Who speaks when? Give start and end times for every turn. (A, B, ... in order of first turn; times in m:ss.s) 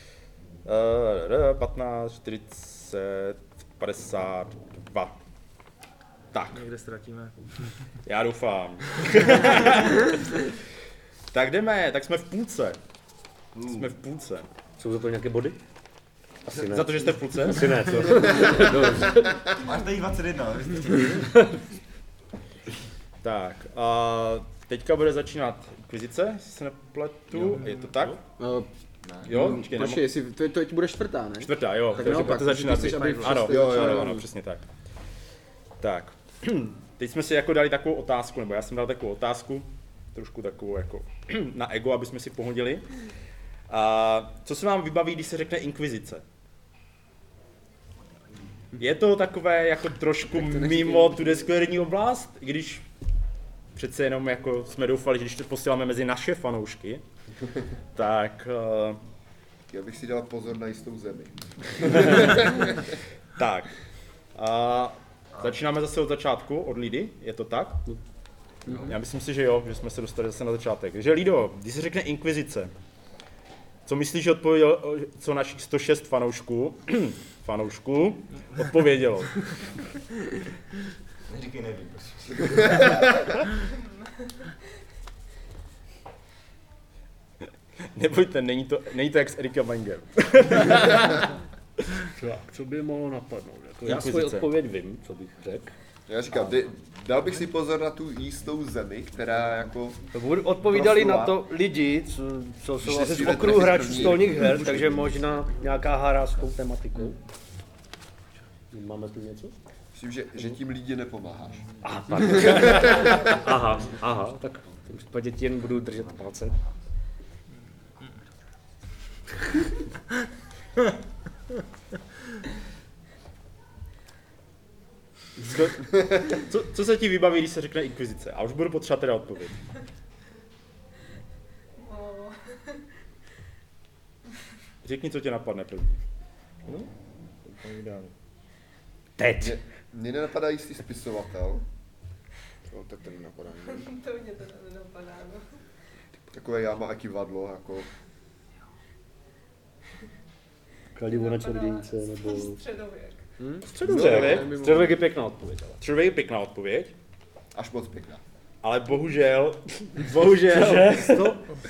0:00.6-0:05.2 A
0:06.3-0:06.6 A
0:06.5-0:07.7 B
0:08.0-0:10.4 A
0:11.3-0:12.8 A
0:13.5-0:13.9 C
0:13.7-0:14.5 A
0:14.8-0:15.6 D
0:16.5-0:19.4 D
0:16.5-0:18.5 A
0:19.6-0:21.5 C
0:23.2-0:28.2 A
0:27.4-0:28.2 B
0:28.4-0:28.7 E
0:29.0-0:29.3 C
0:29.2-0:34.2 E
0:29.2-0:30.0 A
0:31.4-0:34.6 A
0:31.9-0:33.4 B
0:33.5-0:34.2 F
0:35.8-0:42.9 A
0:43.7-0:46.2 A
0:48.8-0:52.8 A
0:50.4-0:51.4 E
0:53.7-0:57.0 A
0:57.9-0:59.0 A
0:59.7-1:02.8 F
1:02.0-1:02.4 A
1:03.4-1:03.7 A
1:04.3-1:07.8 A
1:08.8-1:12.7 A
1:13.8-1:19.8 A
1:21.3-1:22.8 C
1:23.5-1:24.2 G
1:27.9-1:31.3 A
1:32.1-1:35.7 D
1:33.8-1:34.5 A
1:36.1-1:40.1 F
1:40.1-1:47.2 D
1:40.6-1:41.4 F
1:42.8-1:45.5 F
1:48.7-1:49.5 D
1:49.9-1:51.7 F
1:51.8-1:56.6 D
1:52.5-1:52.9 A
1:52.9-1:53.4 F
2:05.4-2:09.6 A
2:11.8-2:12.8 G
2:14.8-2:16.0 A
2:19.2-2:19.6 D
2:19.4-2:21.6 F
2:22.7-2:23.8 E
2:23.6-2:25.4 G
2:26.3-2:27.9 F
2:30.9-2:32.6 D
2:31.0-2:33.2 G
2:33.4-2:35.0 E
2:33.7-2:34.5 A
2:33.7-2:35.8 D
2:35.8-2:36.9 A
2:37.5-2:38.2 F
2:38.6-2:41.4 A
2:40.5-2:41.4 D